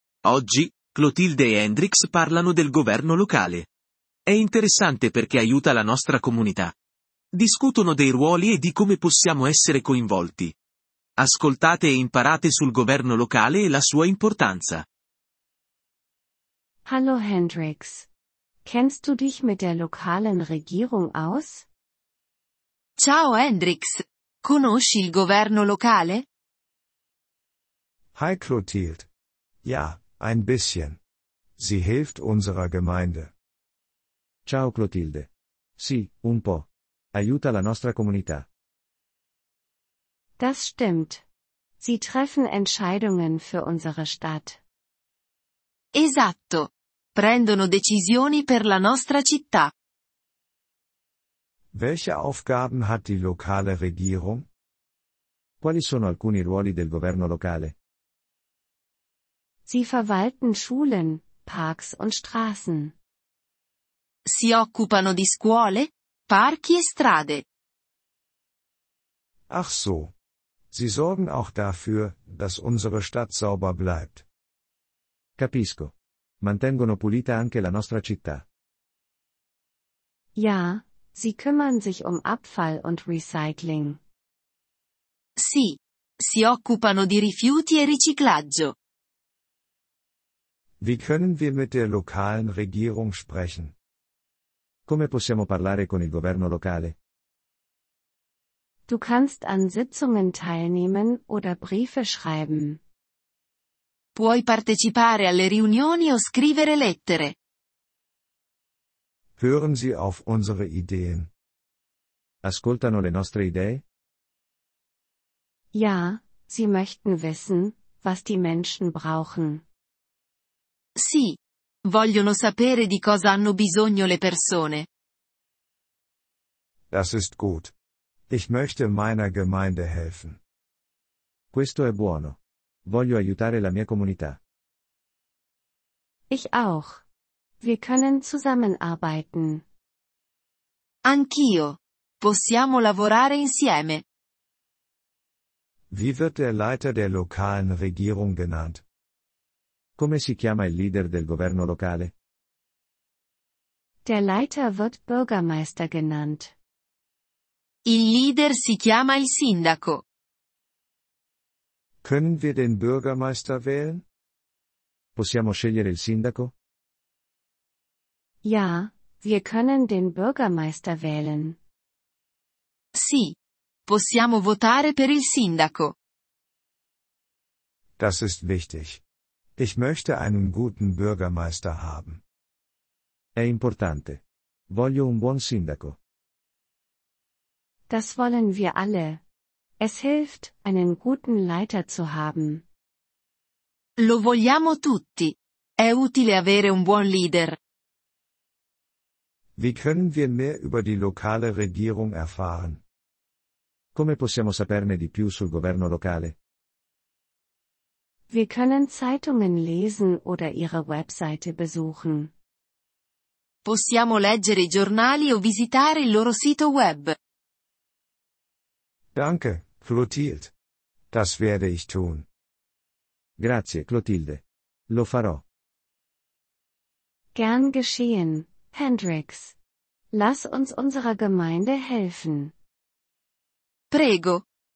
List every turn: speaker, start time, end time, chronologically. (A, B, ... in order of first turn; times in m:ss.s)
0:00.2-0:03.7 A
0:04.3-0:06.7 A
0:07.3-0:10.5 A
0:11.2-0:14.8 A
0:16.8-0:18.1 B
0:18.6-0:21.6 B
0:23.0-0:26.2 C
0:28.1-0:29.0 D
0:29.6-0:31.0 D
0:31.6-0:33.3 D
0:34.4-0:38.4 E
0:40.4-0:41.2 B
0:41.8-0:44.6 B
0:45.9-0:49.7 C
0:51.7-0:54.4 D
0:55.6-0:57.7 E
0:59.6-1:02.9 B
1:04.3-1:07.4 C
1:09.5-1:10.1 D
1:10.7-1:14.2 D
1:15.4-1:18.4 E
1:20.3-1:24.0 B
1:25.4-1:28.7 C
1:30.8-1:33.7 D
1:34.9-1:37.0 E
1:38.9-1:42.8 B
1:44.1-1:47.3 C
1:49.4-1:51.3 D
1:52.4-1:53.8 E
1:55.7-1:59.6 B
2:01.0-2:04.9 C
2:06.9-2:07.7 D
2:08.3-2:10.4 D
2:11.5-2:14.4 E
2:16.3-2:17.0 B
2:17.6-2:19.6 B
2:21.0-2:24.0 C
2:25.9-2:28.8 D
2:30.0-2:32.1 E
2:34.0-2:36.5 B
2:37.8-2:40.0 C
2:42.0-2:44.0 D
2:45.2-2:46.5 E
2:48.4-2:51.6 B
2:52.9-2:53.4 C
2:53.9-2:55.9 C
2:58.0-2:59.0 D
2:59.6-3:02.2 D
3:03.4-3:06.0 E
3:07.9-3:09.2 B
3:09.8-3:12.6 B
3:14.0-3:17.6 C
3:19.6-3:22.8 D
3:23.9-3:26.3 E
3:28.3-3:32.3 B
3:33.6-3:37.1 C
3:39.1-3:40.5 D
3:41.1-3:42.2 D
3:43.4-3:45.4 E
3:47.3-3:49.5 B
3:50.1-3:52.5 B
3:53.9-3:54.4 C